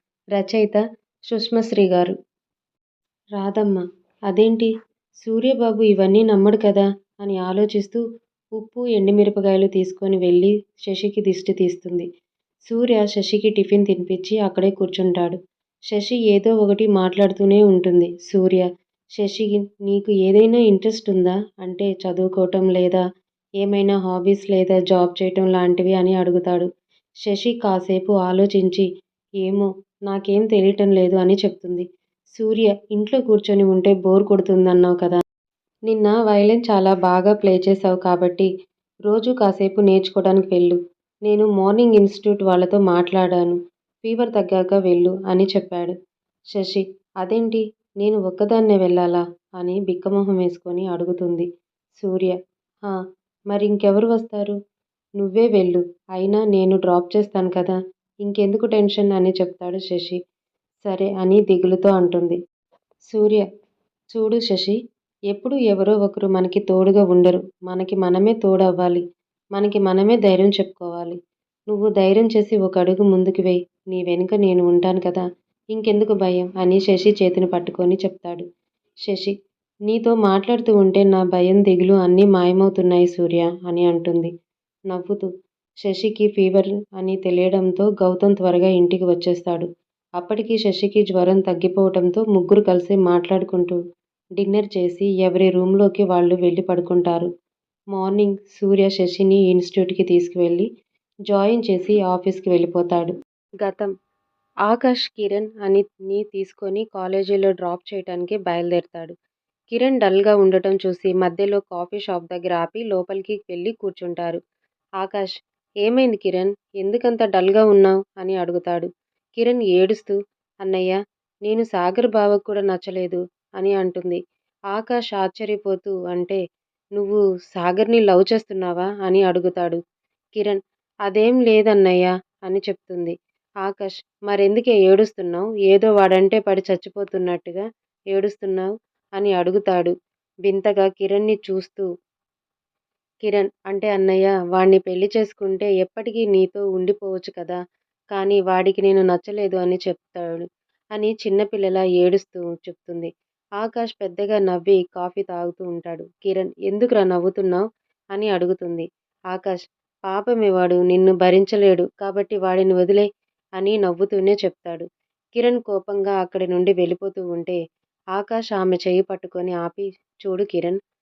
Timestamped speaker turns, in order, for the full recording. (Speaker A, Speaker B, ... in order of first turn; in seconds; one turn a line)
Speaker A: 0.3-2.1
Speaker A: 3.4-4.7
Speaker A: 5.2-8.0
Speaker A: 8.6-12.1
Speaker A: 12.7-15.4
Speaker A: 15.9-23.0
Speaker A: 23.6-26.7
Speaker A: 27.2-28.9
Speaker A: 29.4-31.9
Speaker A: 32.4-35.2
Speaker A: 35.9-38.5
Speaker A: 39.1-46.0
Speaker A: 46.5-52.9
Speaker A: 53.5-54.6
Speaker A: 55.2-60.2
Speaker A: 60.8-62.4
Speaker A: 63.1-63.5
Speaker A: 64.1-64.8
Speaker A: 65.3-69.0
Speaker A: 69.5-71.2
Speaker A: 71.7-78.5
Speaker A: 79.0-79.3
Speaker A: 79.9-84.3
Speaker A: 84.9-85.2
Speaker A: 85.8-89.7
Speaker A: 90.2-93.8
Speaker A: 94.4-97.3
Speaker A: 97.9-100.7
Speaker A: 101.3-103.9
Speaker A: 104.7-109.1
Speaker A: 109.7-114.4
Speaker A: 115.0-124.2
Speaker A: 124.7-126.4
Speaker A: 127.0-129.8
Speaker A: 130.3-139.9
Speaker A: 140.5-141.9
Speaker A: 143.2-147.6
Speaker A: 148.1-163.1
Speaker A: 163.6-167.6
Speaker A: 168.1-170.8